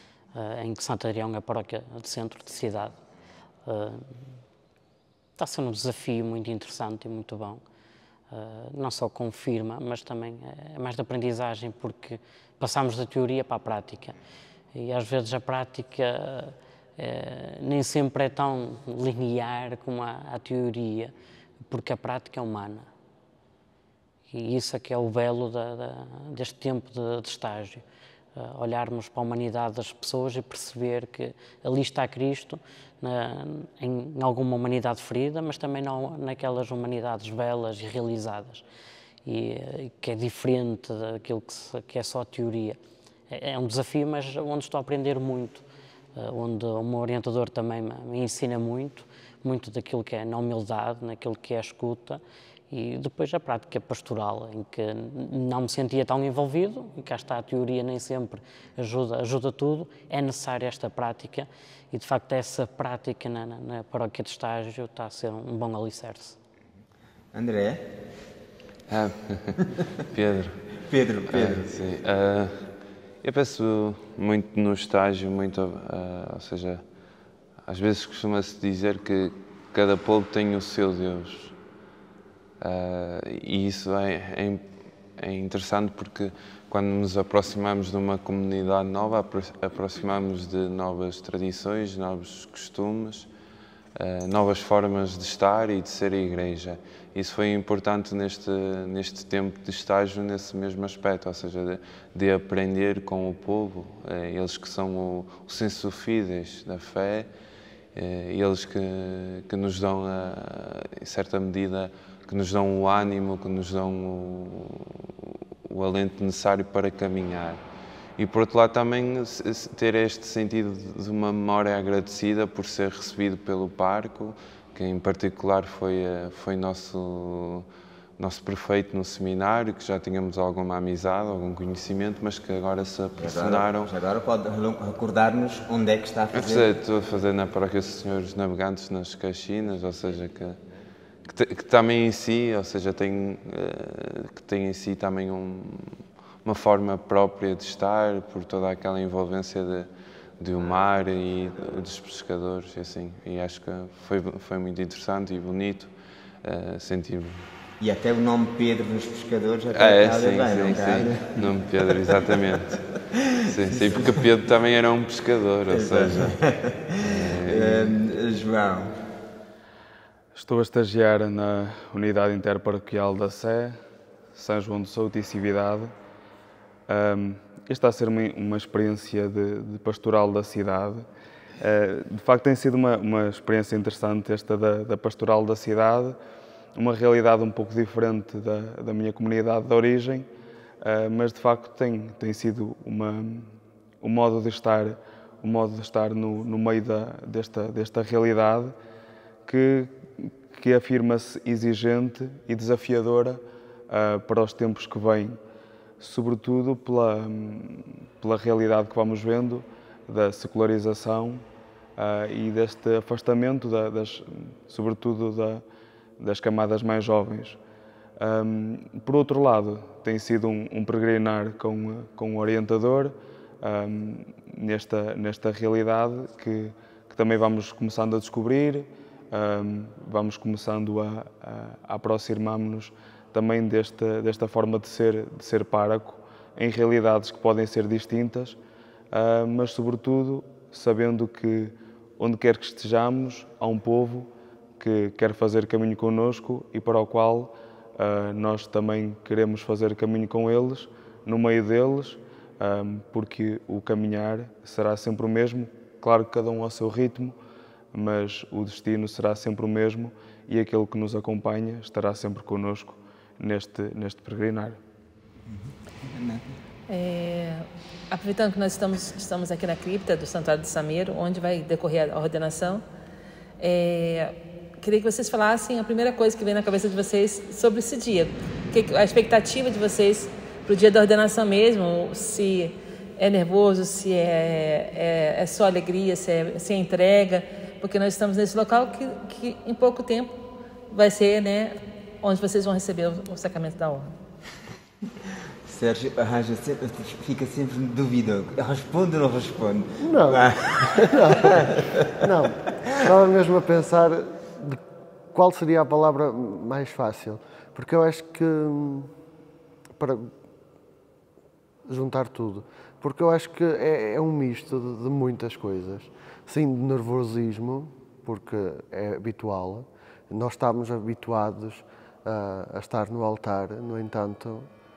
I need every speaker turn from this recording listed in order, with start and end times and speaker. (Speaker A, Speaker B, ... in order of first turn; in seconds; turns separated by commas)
Speaker A: 0.3-3.0, Speaker A: 3.6-4.2, Speaker A: 5.4-7.6, Speaker A: 8.3-14.2, Speaker A: 14.7-21.1, Speaker A: 21.7-22.9, Speaker A: 24.3-27.8, Speaker A: 28.4-38.6, Speaker A: 39.2-42.8, Speaker A: 43.3-66.4, Speaker B: 67.3-67.8, Speaker C: 68.9-70.6, Speaker B: 70.8-71.7, Speaker C: 71.3-72.7, Speaker C: 73.2-76.8, Speaker C: 77.6-81.5, Speaker C: 82.6-84.7, Speaker C: 85.2-93.3, Speaker C: 94.0-107.3, Speaker C: 107.9-117.6, Speaker C: 118.2-127.7, Speaker C: 128.2-133.9, Speaker B: 133.2-136.7, Speaker C: 136.3-140.6, Speaker C: 141.2-149.9, Speaker C: 150.4-155.9, Speaker C: 156.4-157.5, Speaker B: 157.8-162.3, Speaker C: 159.7-162.9, Speaker C: 163.4-166.4, Speaker B: 163.5-164.3, Speaker B: 165.7-169.0, Speaker C: 167.0-168.0, Speaker D: 170.3-173.8, Speaker D: 174.3-175.9, Speaker D: 176.9-181.1, Speaker D: 181.6-186.2, Speaker D: 186.8-190.3, Speaker D: 190.8-193.5, Speaker D: 194.0-198.7, Speaker D: 199.4-205.4, Speaker D: 206.0-211.4, Speaker D: 212.0-215.6, Speaker D: 216.2-217.6, Speaker D: 218.2-238.6, Speaker D: 239.1-257.3, Speaker D: 257.9-264.8, Speaker B: 265.4-266.5, Speaker E: 266.9-272.8, Speaker E: 273.6-290.4, Speaker E: 290.9-294.1, Speaker B: 295.1-302.1, Speaker F: 300.0-304.8, Speaker F: 305.3-309.1, Speaker F: 310.0-310.3, Speaker F: 311.8-324.7